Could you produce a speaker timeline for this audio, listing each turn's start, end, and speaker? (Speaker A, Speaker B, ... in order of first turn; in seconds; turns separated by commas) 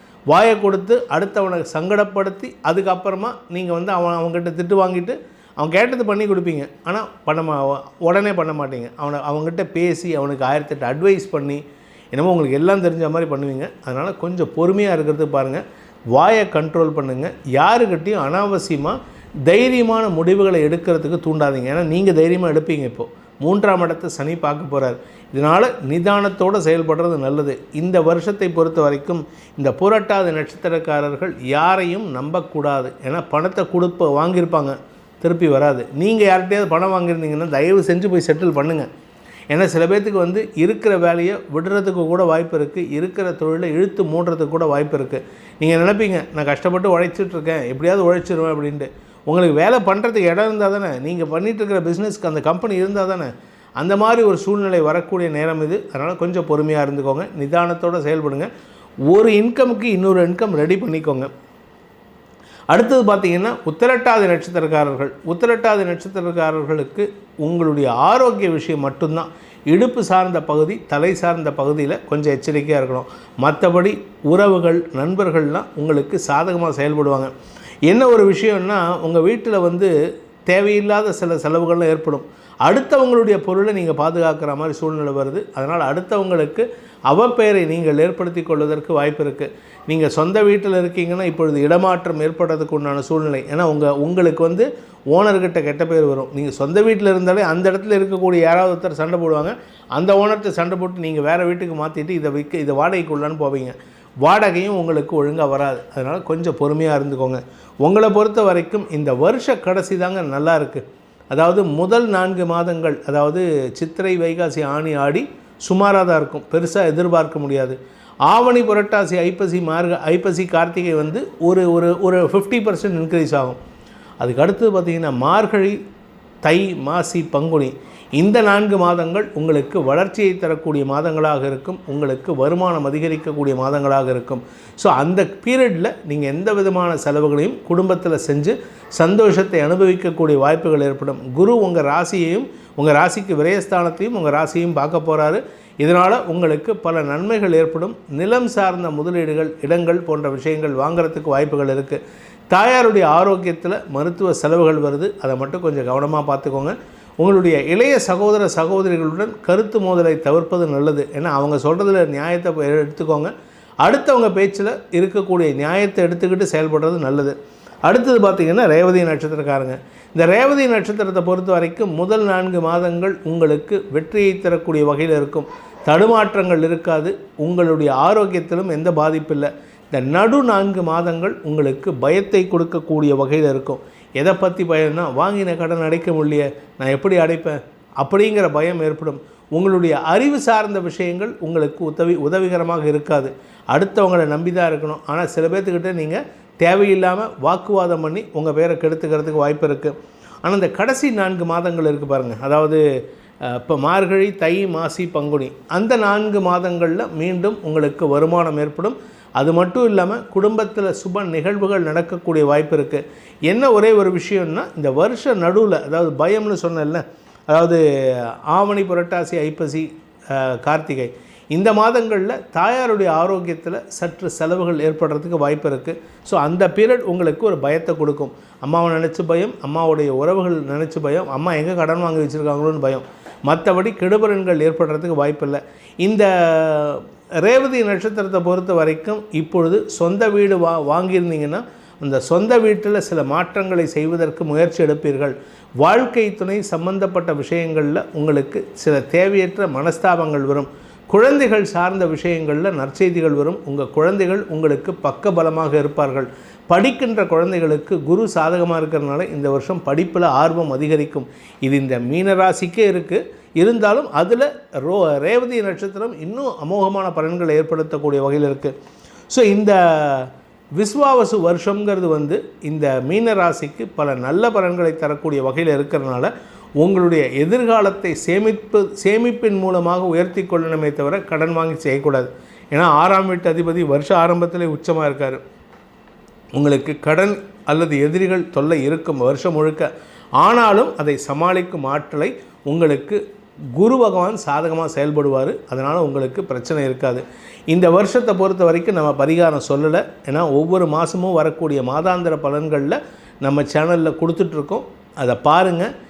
Speaker A: 0.3-11.6, Speaker A: 12.1-18.9, Speaker A: 19.5-38.9, Speaker A: 39.5-58.5, Speaker A: 59.1-61.3, Speaker A: 62.7-77.3, Speaker A: 77.9-79.9, Speaker A: 80.5-123.6, Speaker A: 124.2-125.8, Speaker A: 126.4-163.3, Speaker A: 163.8-167.3, Speaker A: 167.9-202.8, Speaker A: 203.4-268.7, Speaker A: 269.3-285.4, Speaker A: 286.6-293.2, Speaker A: 293.8-305.9